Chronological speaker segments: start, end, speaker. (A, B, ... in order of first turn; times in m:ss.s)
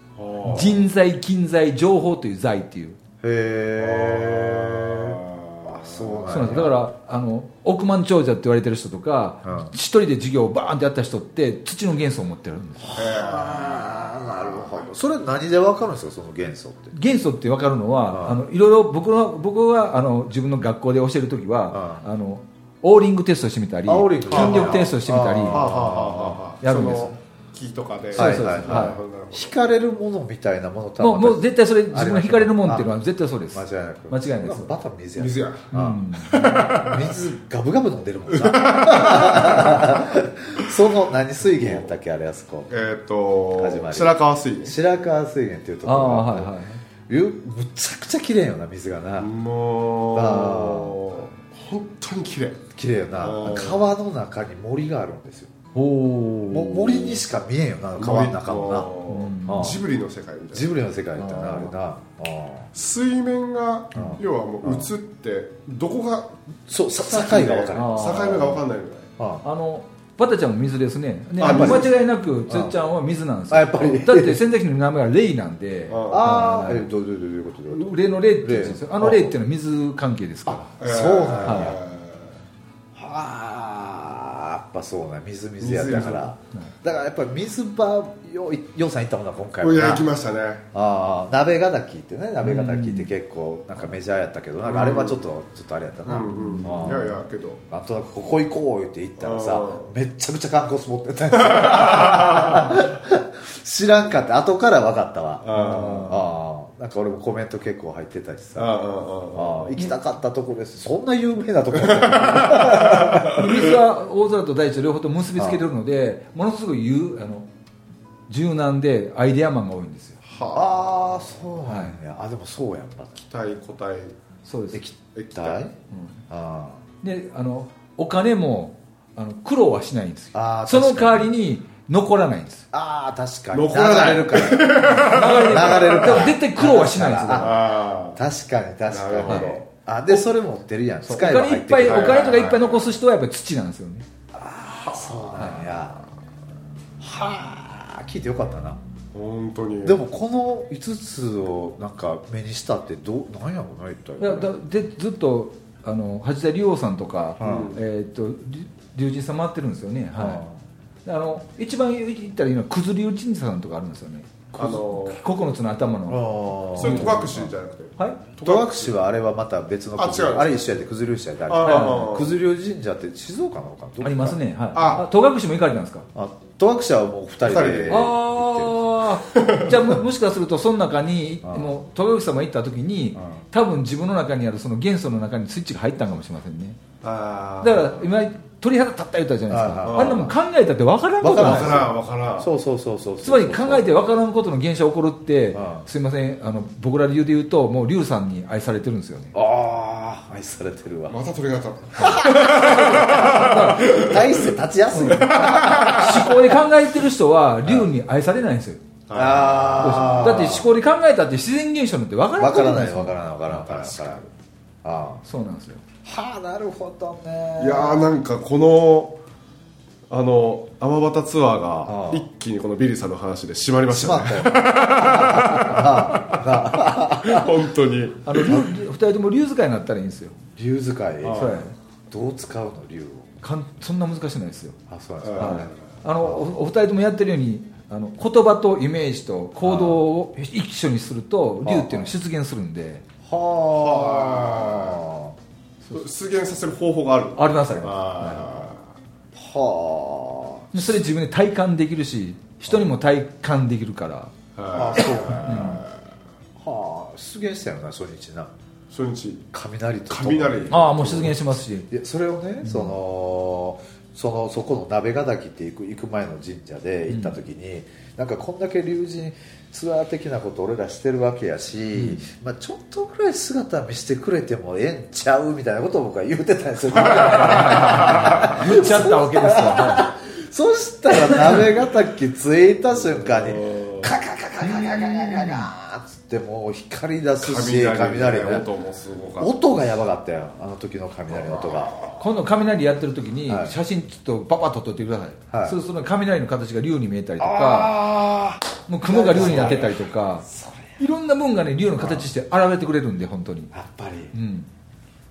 0:00.2-0:00.9 A
0:00.4-0:03.0 B
0:03.2-0:06.7 C
0:03.8-0:06.6 A
0:06.3-0:13.0 B
0:09.4-0:09.7 C
0:12.8-0:16.9 C
0:12.9-0:14.9 A
0:16.9-0:25.9 B
0:18.1-0:18.4 C
0:21.7-0:22.0 C
0:23.8-0:26.4 C
0:24.3-0:24.9 A
0:25.5-0:29.6 A
0:26.6-0:27.2 B
0:28.1-0:32.9 C
0:28.1-0:29.0 B
0:31.0-0:34.7 B
0:33.5-0:42.7 C
0:35.2-0:37.2 A
0:35.7-0:36.8 B
0:38.3-0:40.1 A
0:41.5-0:41.9 A
0:42.7-0:44.8 A
0:43.6-0:46.5 C
0:45.8-0:46.8 B
0:47.1-0:49.3 C
0:49.2-0:52.6 A
0:50.1-0:51.1 C
0:52.7-0:55.5 C
0:53.2-0:53.8 A
0:55.7-0:57.2 B
0:56.5-0:58.9 C
0:58.0-1:01.7 A
0:59.1-0:59.8 B
0:59.5-0:59.8 C
1:00.5-1:02.7 C
1:01.2-1:01.6 B
1:02.7-1:06.3 A
1:03.9-1:04.9 C
1:06.7-1:08.5 C
1:07.0-1:09.1 A
1:07.7-1:08.6 B
1:09.2-1:09.4 C
1:09.4-1:16.9 B
1:11.4-1:12.0 A
1:11.4-1:11.9 C
1:12.5-1:12.8 C
1:13.5-1:14.4 C
1:15.9-1:16.6 A
1:16.1-1:19.4 C
1:17.7-1:20.7 B
1:20.4-1:21.8 C
1:20.8-1:22.3 A
1:21.4-1:21.7 B
1:22.9-1:30.1 C
1:25.6-1:26.3 A
1:29.6-1:30.6 A
1:30.7-1:48.7 C
1:32.4-1:33.1 B
1:34.6-1:35.2 A
1:36.0-1:37.6 A
1:36.3-1:36.7 B
1:39.2-1:39.9 A
1:41.3-1:42.8 A
1:45.4-1:46.2 A
1:48.6-1:49.7 A
1:49.3-1:53.7 C
1:51.8-1:53.7 A
1:53.3-1:57.5 B
1:55.4-1:55.6 C
1:58.3-2:00.2 B
2:00.2-2:01.3 A
2:00.5-2:03.2 C
2:01.6-2:02.0 B
2:03.3-2:04.1 A
2:04.4-2:04.8 B
2:04.7-2:05.7 C
2:05.1-2:05.7 A
2:05.9-2:06.2 B
2:06.3-2:06.8 C
2:07.0-2:12.7 B
2:10.3-2:11.3 C
2:12.7-2:22.6 C
2:13.5-2:16.3 A
2:14.8-2:17.6 B
2:17.3-2:18.2 A
2:18.9-2:20.2 A
2:19.3-2:19.5 B
2:21.0-2:24.0 B
2:21.8-2:22.8 A
2:24.3-2:26.0 C
2:24.7-2:25.5 A
2:25.4-2:25.7 B
2:27.0-2:28.8 C
2:29.1-2:30.0 A
2:29.8-2:34.5 C
2:34.2-2:40.4 B
2:37.4-2:37.8 C
2:37.4-2:37.8 A
2:40.1-2:40.6 C
2:41.0-2:48.2 B
2:44.6-2:45.2 A
2:46.1-2:47.5 C
2:46.8-2:48.9 A
2:48.4-2:54.4 C
2:50.0-2:50.7 A
2:51.5-2:52.4 A
2:51.6-2:52.1 B
2:54.0-2:56.1 B
2:54.7-2:55.1 A
2:56.1-2:58.8 C
2:57.4-2:58.1 A
2:57.9-3:06.8 B
2:59.3-2:59.8 A
3:01.4-3:01.7 C
3:03.2-3:03.4 C
3:07.0-3:08.1 A
3:07.6-3:11.8 B
3:09.5-3:10.3 C
3:09.8-3:10.3 A
3:11.2-3:13.9 C
3:11.2-3:12.5 A
3:13.2-3:19.3 B
3:15.5-3:15.9 C
3:19.3-3:21.2 C
3:21.1-3:26.4 A
3:21.9-3:26.4 C
3:22.5-3:23.8 B
3:24.9-3:25.3 B
3:25.9-3:28.8 B
3:29.1-3:30.4 A
3:29.1-3:30.7 C
3:29.8-3:33.9 B
3:32.4-3:34.2 C
3:33.7-3:34.2 A
3:34.8-3:35.2 C
3:35.2-3:35.8 B
3:36.0-3:38.1 C
3:37.6-3:39.2 A
3:40.1-3:48.4 A
3:41.8-3:42.2 C
3:43.9-3:47.6 C
3:48.2-3:50.4 B
3:48.3-3:48.7 C
3:50.6-3:53.4 C
3:51.2-3:51.6 A
3:51.4-3:51.7 B
3:53.4-3:54.8 B
3:54.9-3:56.4 C
3:55.2-3:55.8 A
3:55.4-4:03.0 B
3:59.6-4:00.1 C
4:01.6-4:02.1 C
4:03.2-4:05.4 C
4:03.7-4:05.0 A
4:05.9-4:08.8 A
4:07.4-4:08.7 B
4:09.3-4:10.9 C
4:10.7-4:14.3 B
4:14.6-4:16.0 A
4:14.7-4:15.8 C
4:15.4-4:15.8 B
4:16.6-4:18.5 C
4:18.9-4:19.5 A
4:19.5-4:21.4 C
4:20.1-4:21.4 A
4:20.7-4:21.9 B
4:21.9-4:48.7 C
4:22.6-4:23.0 B
4:27.1-4:27.4 B
4:31.9-4:32.2 B
4:37.0-4:38.5 A
4:37.0-4:40.1 B
4:41.2-4:41.6 B
4:43.1-4:44.1 A
4:45.2-4:45.6 B
4:47.4-4:49.5 A
4:49.4-4:52.0 C
4:51.3-4:52.2 A
4:52.2-4:57.9 B
4:53.4-4:53.8 C
4:55.5-4:55.8 C
4:57.4-5:01.0 C
4:58.9-5:00.4 B
4:59.4-4:59.8 A
5:01.0-5:03.7 B
5:02.0-5:02.3 C
5:03.7-5:04.3 C
5:04.3-5:04.7 B